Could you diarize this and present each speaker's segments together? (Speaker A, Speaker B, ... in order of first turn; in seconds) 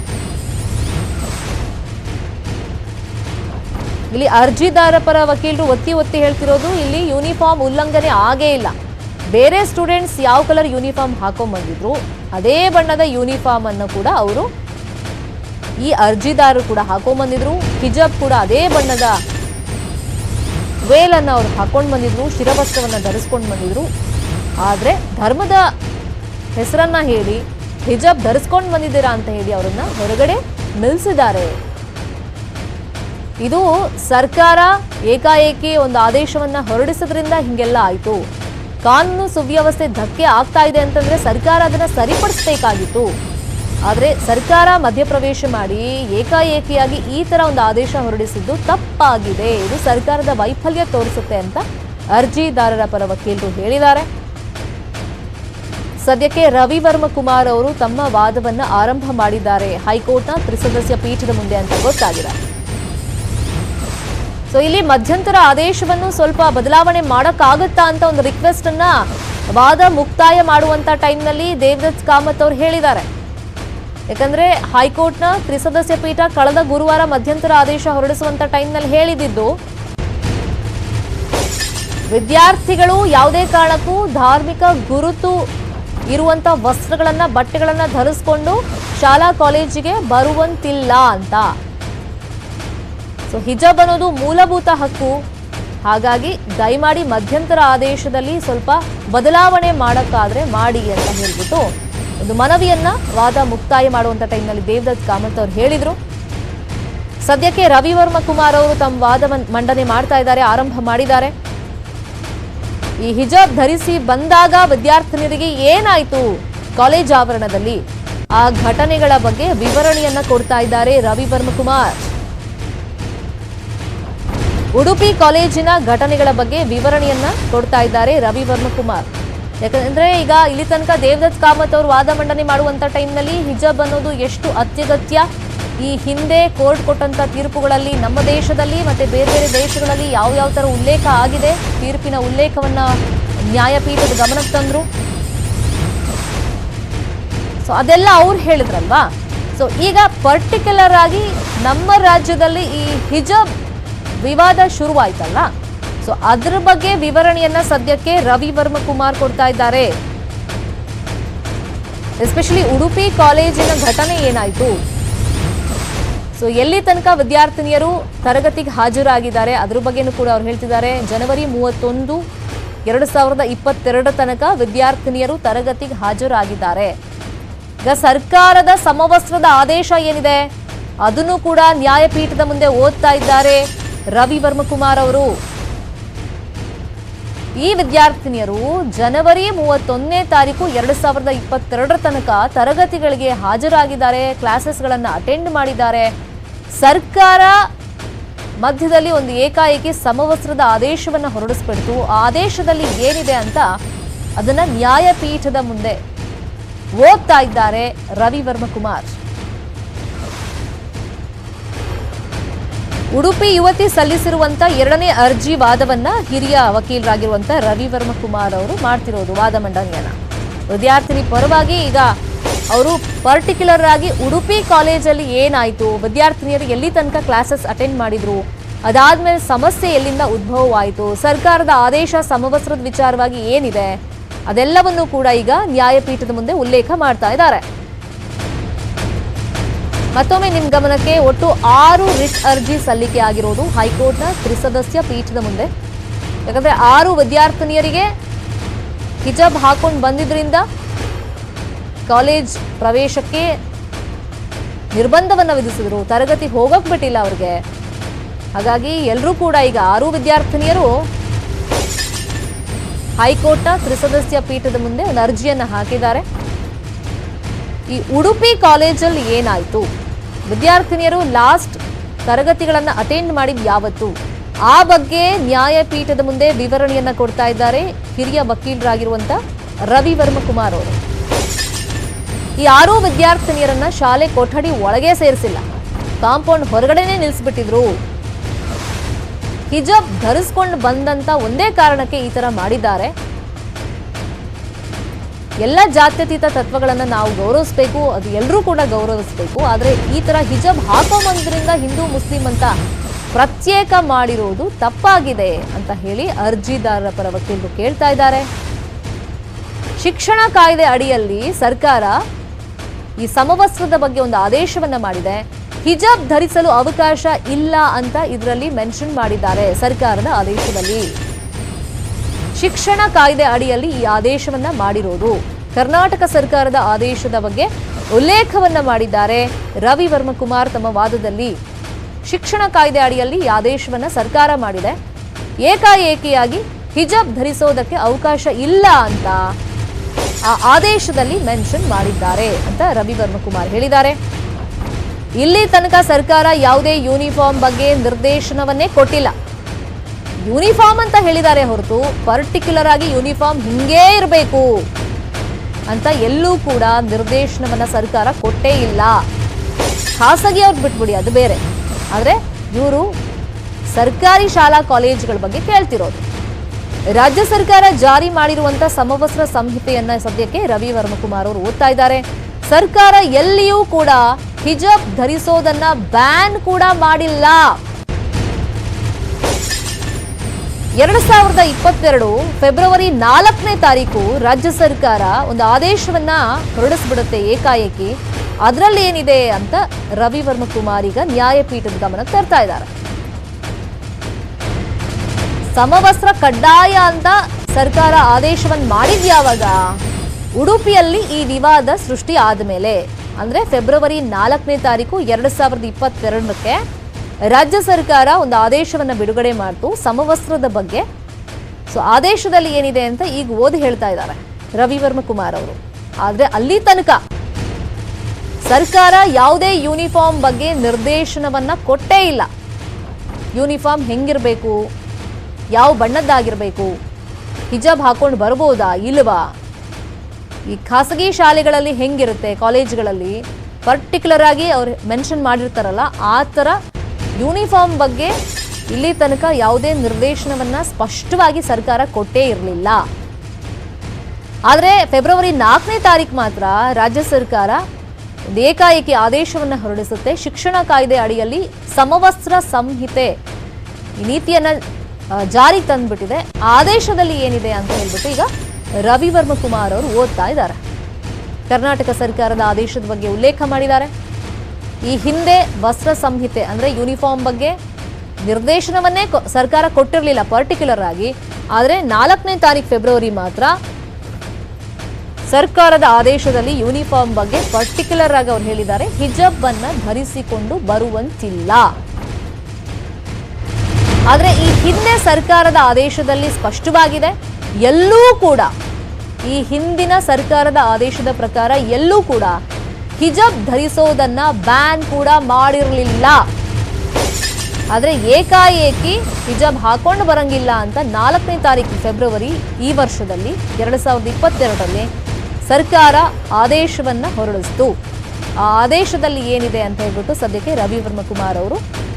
Speaker A: 4.1-8.8, 9.3-14.5, 15.8-19.2, 20.9-23.9, 24.6-25.7, 26.6-31.5, 33.4-38.2, 38.8-43.1, 43.9-54.1, 56.0-62.4, 64.5-73.1, 74.1-79.5, 82.1-85.4, 86.1-91.5, 93.3-95.2, 95.9-101.7, 102.2-106.0, 107.2-111.3, 113.0-117.8, 118.4-122.1, 124.8-129.1, 129.6-135.3, 135.8-142.9, 143.5-144.9, 147.6-153.5, 154.2-155.5, 156.0-159.9, 162.2-164.8, 166.3-172.2, 172.9-176.9, 177.8-180.5, 181.0-183.6, 184.2-185.3, 187.6-196.1, 196.8-197.7, 198.6-203.7, 204.4-206.0, 207.0-209.1, 213.2-220.2, 220.7-222.1, 222.7-237.6, 240.2-245.7, 246.5-248.1, 249.2-250.7, 252.1-253.5, 254.9-257.6, 258.6-261.1, 263.2-266.2, 267.9-269.9, 270.5-274.1, 274.7-279.4, 279.9-281.0, 282.6-285.6, 286.2-287.9, 289.7-293.1, 295.6-302.7, 303.3-308.5, 310.0-312.2, 313.2-321.1, 322.6-331.6, 332.2-335.0, 335.6-339.4, 340.5-344.2, 345.4-349.3, 350.5-354.8, 355.9-359.2, 360.2-361.6, 362.1-363.1, 363.9-366.2, 367.1-377.8, 381.0-392.9, 395.8-399.9, 400.6-406.8, 407.5-411.1, 411.9-417.2, 418.6-422.5, 423.6-424.8, 425.7-426.9, 427.7-429.5, 430.7-436.8, 437.4-438.3, 438.9-443.0, 444.7-447.8, 448.5-453.3, 454.2-454.8, 455.4-458.5, 459.0-460.8, 461.7-464.1, 465.0-467.8, 468.4-473.7, 475.5-481.9, 484.3-488.7, 489.4-492.6, 493.2-496.4, 497.9-505.1, 505.7-507.9, 508.6-511.8